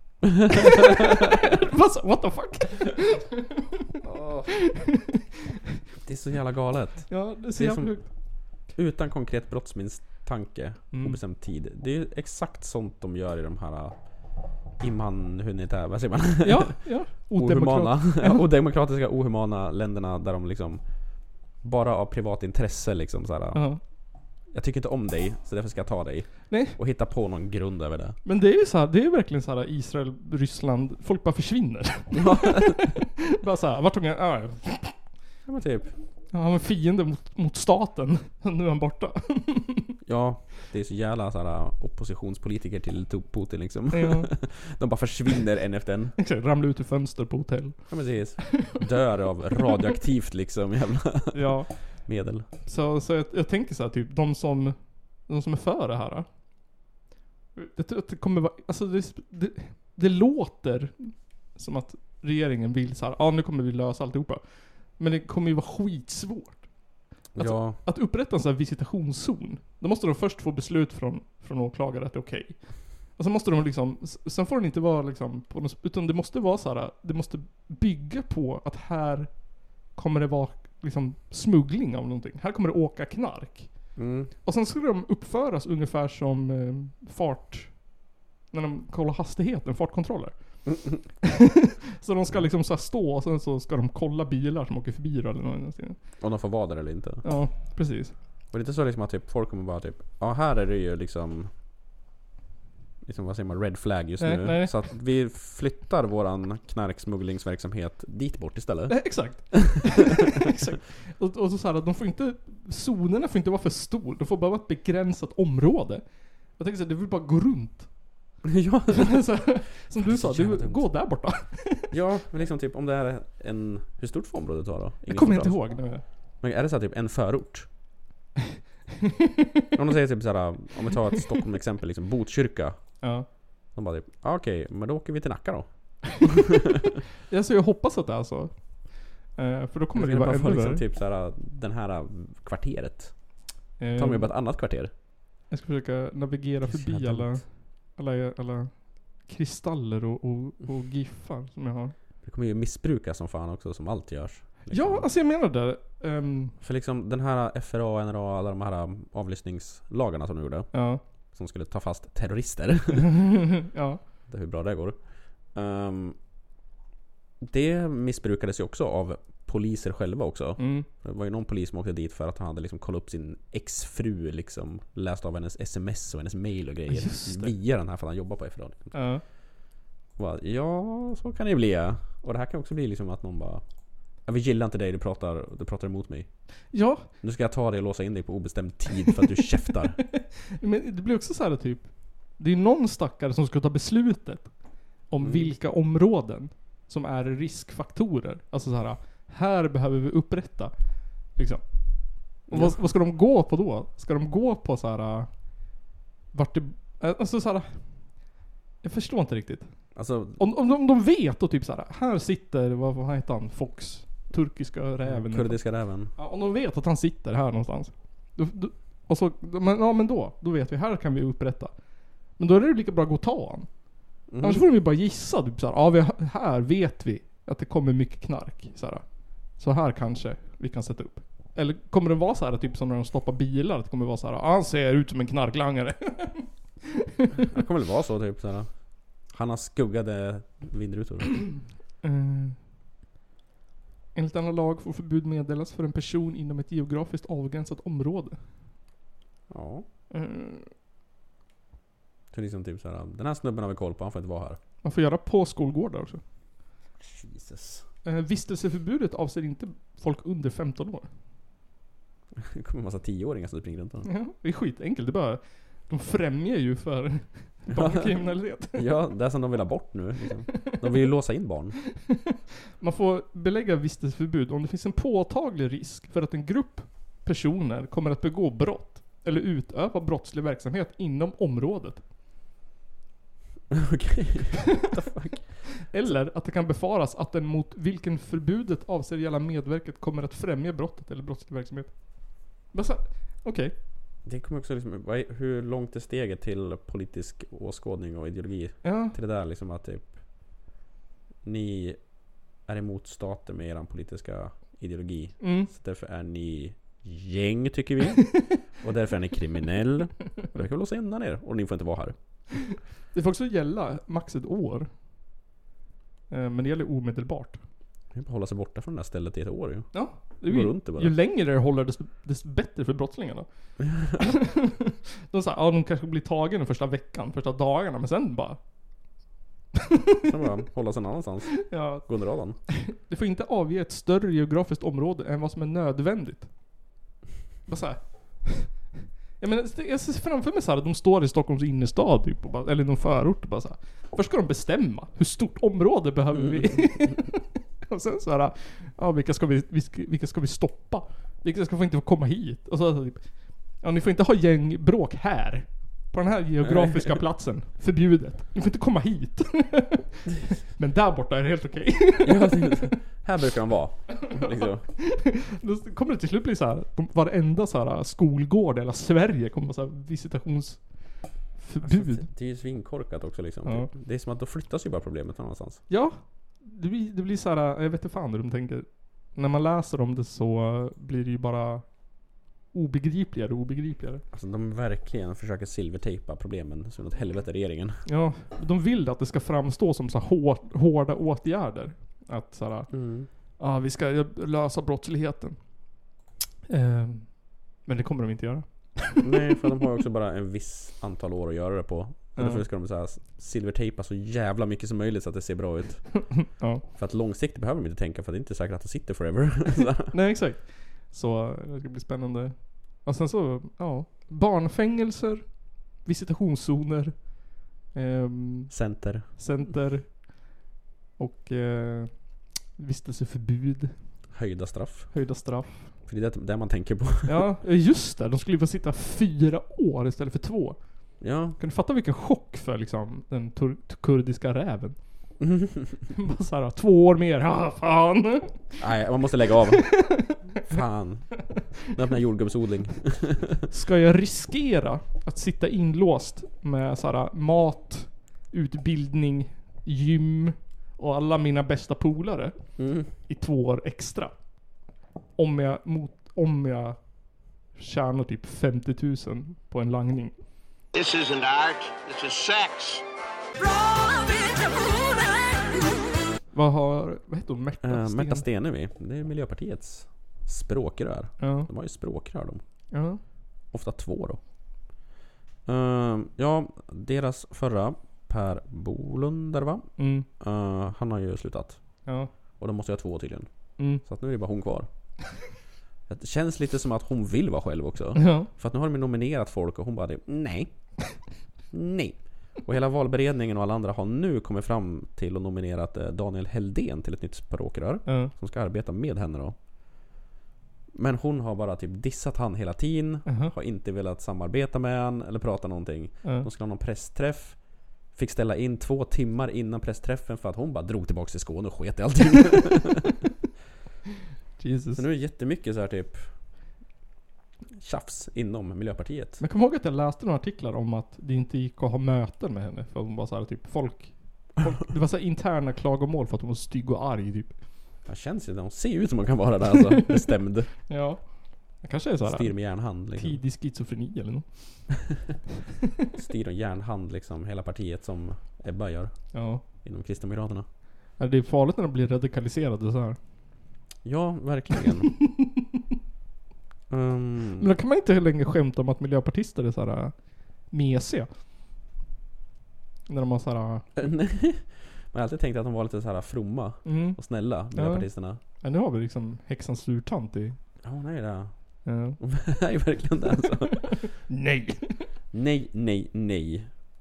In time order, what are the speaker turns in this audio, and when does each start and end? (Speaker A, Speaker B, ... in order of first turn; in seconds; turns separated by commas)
Speaker A: 0.7-3.7, Speaker B: 4.0-4.6, Speaker A: 4.5-5.1, Speaker B: 6.0-28.2, Speaker A: 7.1-8.1, Speaker A: 10.9-11.2, Speaker A: 16.4-18.4, Speaker A: 23.5-23.8, Speaker A: 26.5-26.8, Speaker A: 28.2-35.0, Speaker B: 32.2-32.8, Speaker B: 35.5-36.0, Speaker A: 36.3-39.9, Speaker B: 40.0-46.2, Speaker A: 43.9-44.4, Speaker A: 46.2-48.8, Speaker B: 47.9-52.5, Speaker A: 51.3-56.3, Speaker A: 57.6-66.7, Speaker A: 67.2-96.0, Speaker B: 67.3-67.8, Speaker B: 84.0-84.3, Speaker B: 96.2-97.2, Speaker A: 97.2-98.1, Speaker B: 98.5-101.5, Speaker B: 103.0-109.9, Speaker A: 104.2-104.8, Speaker A: 108.9-118.2, Speaker B: 118.5-121.2, Speaker A: 119.0-121.9, Speaker B: 121.9-127.7, Speaker A: 125.1-126.0, Speaker B: 129.8-133.2, Speaker A: 133.0-133.3, Speaker B: 133.7-136.4, Speaker A: 137.3-140.8, Speaker B: 139.9-144.9, Speaker A: 143.8-144.4, Speaker A: 145.5-151.9, Speaker B: 146.6-147.4, Speaker B: 152.2-155.1, Speaker A: 154.7-156.6, Speaker B: 156.6-163.2, Speaker A: 160.7-161.0, Speaker A: 163.1-164.0, Speaker B: 164.3-166.2, Speaker B: 167.4-179.3, Speaker A: 170.6-170.9, Speaker A: 176.9-177.6, Speaker A: 178.9-179.2, Speaker B: 180.2-183.6, Speaker B: 184.2-186.7, Speaker A: 186.7-187.1, Speaker B: 187.2-190.0, Speaker A: 190.1-205.8, Speaker B: 195.2-195.5, Speaker B: 202.5-202.8, Speaker A: 206.3-207.9, Speaker A: 208.8-221.8, Speaker B: 209.9-210.4, Speaker B: 215.0-216.1, Speaker A: 222.3-236.5, Speaker B: 224.3-224.7, Speaker B: 237.5-241.6, Speaker A: 242.0-242.6, Speaker A: 244.1-248.5, Speaker B: 249.5-249.9, Speaker A: 250.1-250.7, Speaker B: 252.3-254.6, Speaker A: 254.8-256.2, Speaker B: 257.0-257.9, Speaker A: 258.0-261.1, Speaker B: 262.4-264.1, Speaker A: 264.1-268.9, Speaker B: 267.7-268.2, Speaker B: 268.7-271.8, Speaker A: 272.8-282.0, Speaker B: 283.7-286.1, Speaker A: 285.8-293.7, Speaker B: 294.2-300.2, Speaker A: 298.8-299.2, Speaker B: 301.4-312.2, Speaker A: 305.4-305.7, Speaker A: 313.1-314.9, Speaker A: 316.3-317.6, Speaker B: 318.1-321.1, Speaker A: 319.9-328.6, Speaker B: 323.8-324.2, Speaker B: 330.2-332.6, Speaker A: 331.6-332.1, Speaker A: 332.7-336.5, Speaker A: 337.7-362.9, Speaker B: 346.3-347.1, Speaker B: 356.6-357.2, Speaker B: 362.2-364.9, Speaker A: 364.3-372.3, Speaker B: 371.8-375.8, Speaker A: 375.9-384.2, Speaker B: 384.3-388.1, Speaker A: 388.1-395.9, Speaker B: 392.9-393.3, Speaker A: 396.7-399.2, Speaker B: 399.2-406.4, Speaker A: 402.4-402.6, Speaker A: 406.3-406.8, Speaker B: 406.9-410.1, Speaker A: 410.1-420.6, Speaker B: 418.7-419.3, Speaker A: 421.2-424.0, Speaker B: 424.3-425.2, Speaker A: 425.1-425.9, Speaker B: 426.1-427.5, Speaker A: 427.3-435.3, Speaker B: 431.2-431.6, Speaker B: 435.4-436.0, Speaker A: 436.1-438.8, Speaker B: 438.8-443.6, Speaker A: 439.8-440.4, Speaker A: 443.7-454.4, Speaker B: 452.8-453.1, Speaker A: 455.4-457.0, Speaker A: 457.7-460.3, Speaker C: 460.9-463.0, Speaker A: 466.5-468.4, Speaker B: 467.8-472.6, Speaker A: 471.4-471.7, Speaker A: 472.9-473.2, Speaker B: 473.7-474.4, Speaker B: 475.7-482.0, Speaker A: 480.0-480.3, Speaker A: 482.1-482.3, Speaker B: 482.6-484.9, Speaker A: 483.8-484.0, Speaker B: 486.1-490.7, Speaker A: 488.2-488.5, Speaker B: 491.7-499.6, Speaker A: 498.1-498.3, Speaker B: 500.9-513.2, Speaker A: 503.3-503.5, Speaker A: 514.6-515.0, Speaker B: 515.0-516.3, Speaker B: 517.8-519.4, Speaker A: 519.4-527.5, Speaker B: 528.0-530.7, Speaker A: 530.9-535.0, Speaker B: 532.2-533.4, Speaker B: 536.1-540.7, Speaker A: 539.3-539.6, Speaker A: 541.2-543.2, Speaker B: 544.0-545.2, Speaker B: 546.9-547.7, Speaker A: 547.6-551.3, Speaker A: 553.1-553.9, Speaker B: 554.0-558.4, Speaker A: 556.9-560.6, Speaker B: 560.8-564.1, Speaker A: 561.9-562.2, Speaker A: 563.9-565.0, Speaker B: 565.3-566.7